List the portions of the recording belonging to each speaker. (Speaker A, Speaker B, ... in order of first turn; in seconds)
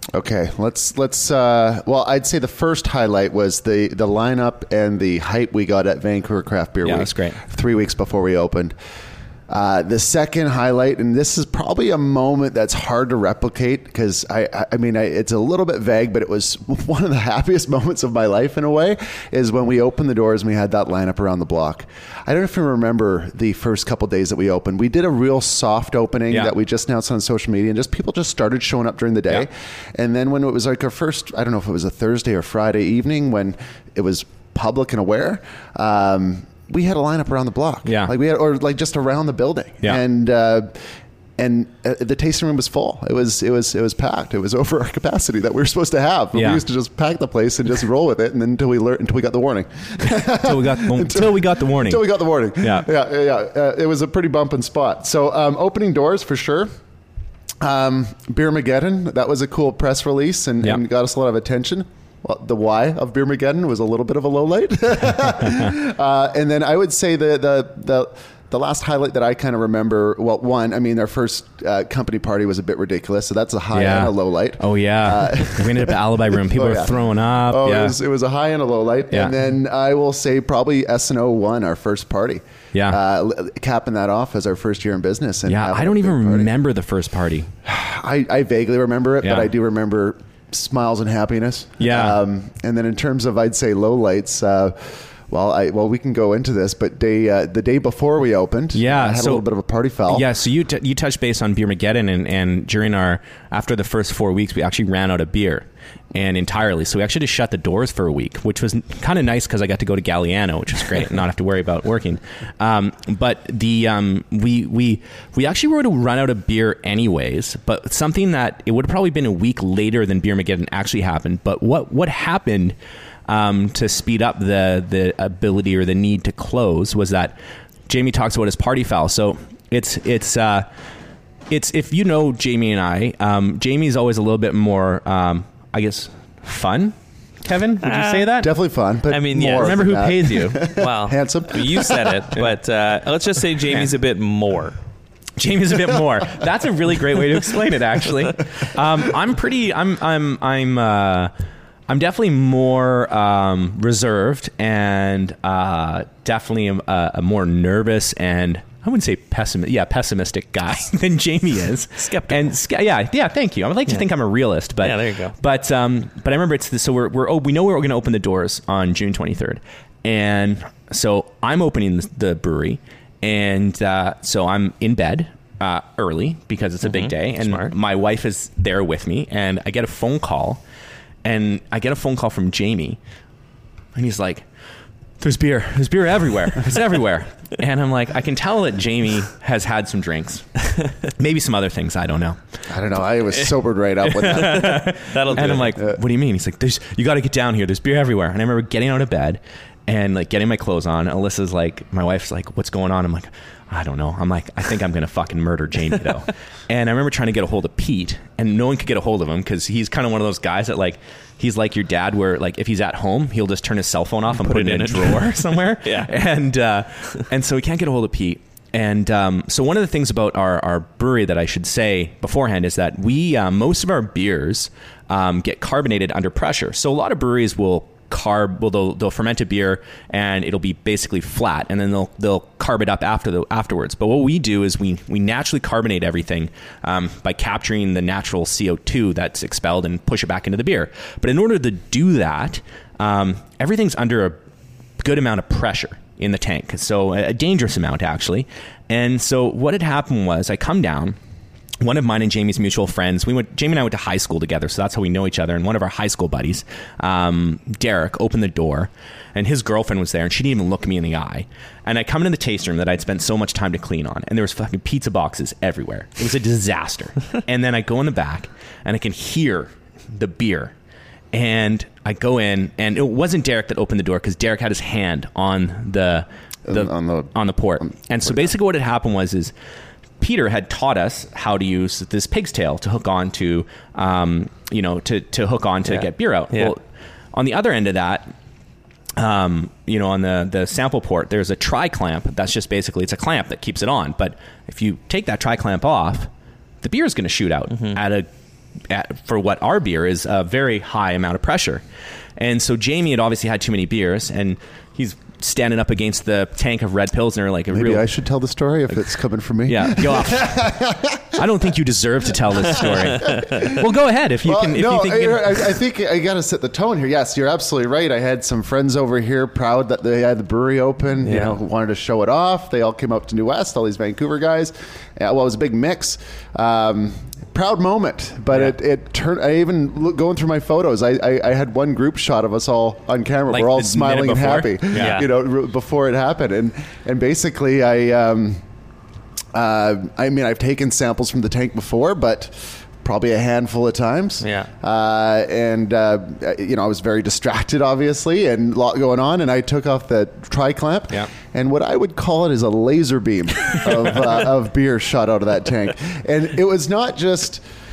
Speaker A: 0.1-8.8, 9.5-56.7, 57.6-86.5, 87.6-100.2, 138.4-142.3, 192.7-194.9, 195.5-196.0, 276.6-278.5, 307.7-311.7, 312.7-313.9, 314.4-338.6, 339.5-357.6
Speaker B: 6.8-7.4, 37.9-38.1, 46.3-46.6, 50.1-52.1, 52.6-52.9, 73.7-78.0, 82.7-83.0, 85.5-87.5, 89.2-89.5, 91.8-92.2, 98.7-99.4, 100.1-122.8, 123.3-127.3, 127.9-130.7, 131.5-138.5, 139.4-140.7, 145.4-151.3, 151.9-180.6, 181.2-183.0, 183.9-184.4, 185.2-192.6, 194.1-244.4, 245.0-251.2, 251.8-270.7, 271.3-279.5, 280.2-286.8, 287.3-288.3, 289.2-296.3, 296.8-298.3, 298.9-301.8, 302.4-308.0, 309.6-310.7, 311.3-315.7, 333.5-335.2
Speaker C: 137.8-138.3, 139.1-140.0, 140.8-144.8, 162.0-162.5, 164.8-165.3, 176.8-177.7, 194.3-195.8, 214.3-216.1, 285.9-286.7, 297.7-298.0, 321.2-321.6, 334.9-335.2, 344.4-344.7